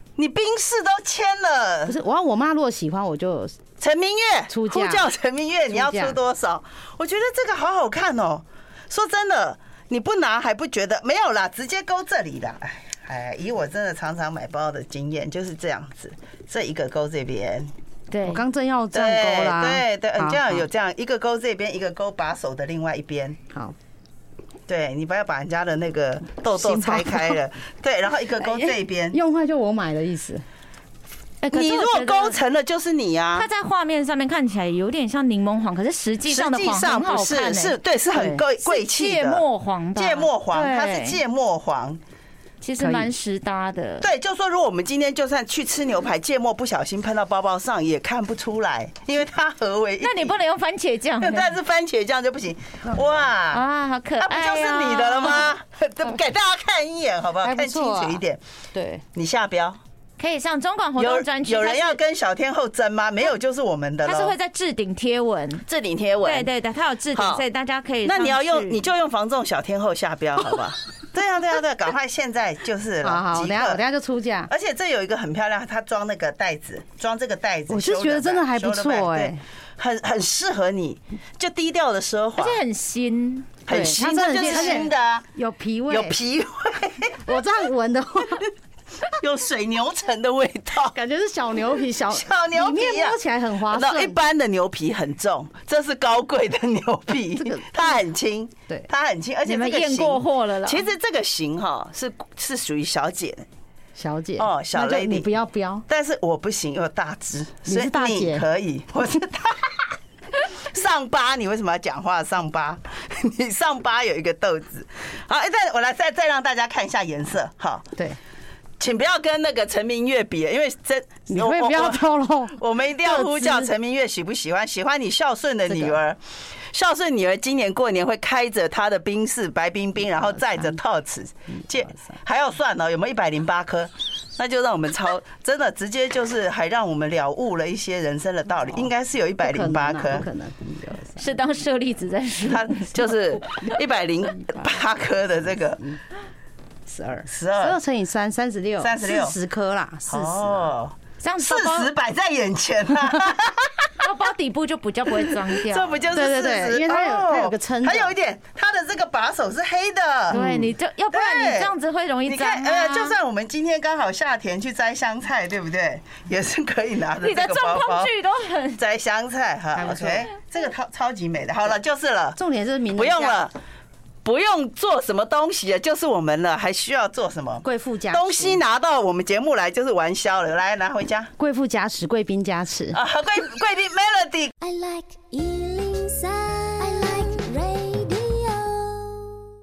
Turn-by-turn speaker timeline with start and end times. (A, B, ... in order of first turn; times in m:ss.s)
0:00.2-0:02.0 A
0:01.9-0:03.6 B
0:03.8-0:17.7 A
0:04.5-0:05.0 B
0:05.7-0:06.2 B
0:18.1-0:18.4 C
0:18.2-0:20.6 B
0:18.9-0:23.4 A
0:24.7-0:29.2 A
0:26.5-0:27.4 B
0:28.4-0:30.4 B
0:31.4-0:32.4 C
0:31.5-0:33.5 A
0:33.4-0:41.2 C
0:36.3-0:39.4 A
0:39.9-0:42.0 A
0:42.6-0:44.0 C
0:42.8-0:43.1 B
0:44.0-0:50.4 A
0:50.0-0:51.5 C
0:51.2-0:53.6 A
0:53.5-0:55.6 C
0:54.2-0:58.4 A
0:57.4-0:58.2 B
0:58.7-0:59.0 B
0:59.1-0:59.8 A
1:00.2-1:02.0 C
1:01.0-1:04.3 A
1:04.0-1:05.6 C
1:05.6-1:06.5 A
1:06.2-1:08.8 C
1:07.1-1:07.4 A
1:08.0-1:13.8 A
1:13.0-1:14.5 B
1:14.5-1:22.6 A
1:17.7-1:19.4 B
1:22.4-1:23.6 C
1:23.7-1:25.2 A
1:23.7-1:26.2 B
1:24.4-1:24.8 C
1:25.9-1:27.3 A
1:27.2-1:28.4 B
1:29.1-1:31.0 A
1:30.9-1:34.2 B
1:32.1-1:43.4 A
1:37.4-1:38.0 B
1:39.4-1:40.9 C
1:44.0-1:45.8 B
1:44.4-1:45.3 A
1:45.9-1:49.9 A
1:47.7-1:48.4 B
1:50.4-1:57.9 A
1:58.8-2:20.3 A
2:01.3-2:03.7 B
2:05.7-2:06.0 B
2:19.4-2:21.3 B
2:21.2-2:23.0 C
2:22.4-2:25.8 A
2:26.9-2:30.7 B
2:27.3-2:27.8 A
2:28.8-2:29.4 A
2:30.1-2:34.0 A
2:31.2-2:31.9 C
2:34.0-2:36.1 C
2:35.6-2:40.5 A
2:36.1-2:38.1 B
2:40.3-2:40.7 B
2:40.3-2:43.2 C
2:41.1-2:41.7 A
2:42.2-2:48.1 A
2:47.2-2:48.8 C
2:48.8-2:52.4 A
2:49.8-2:50.3 B
2:52.4-2:53.5 B
2:53.0-2:53.5 A
2:54.2-3:01.3 A
2:57.6-2:58.6 B
3:01.4-3:03.0 B
3:02.9-3:04.5 A
3:04.6-3:09.3 D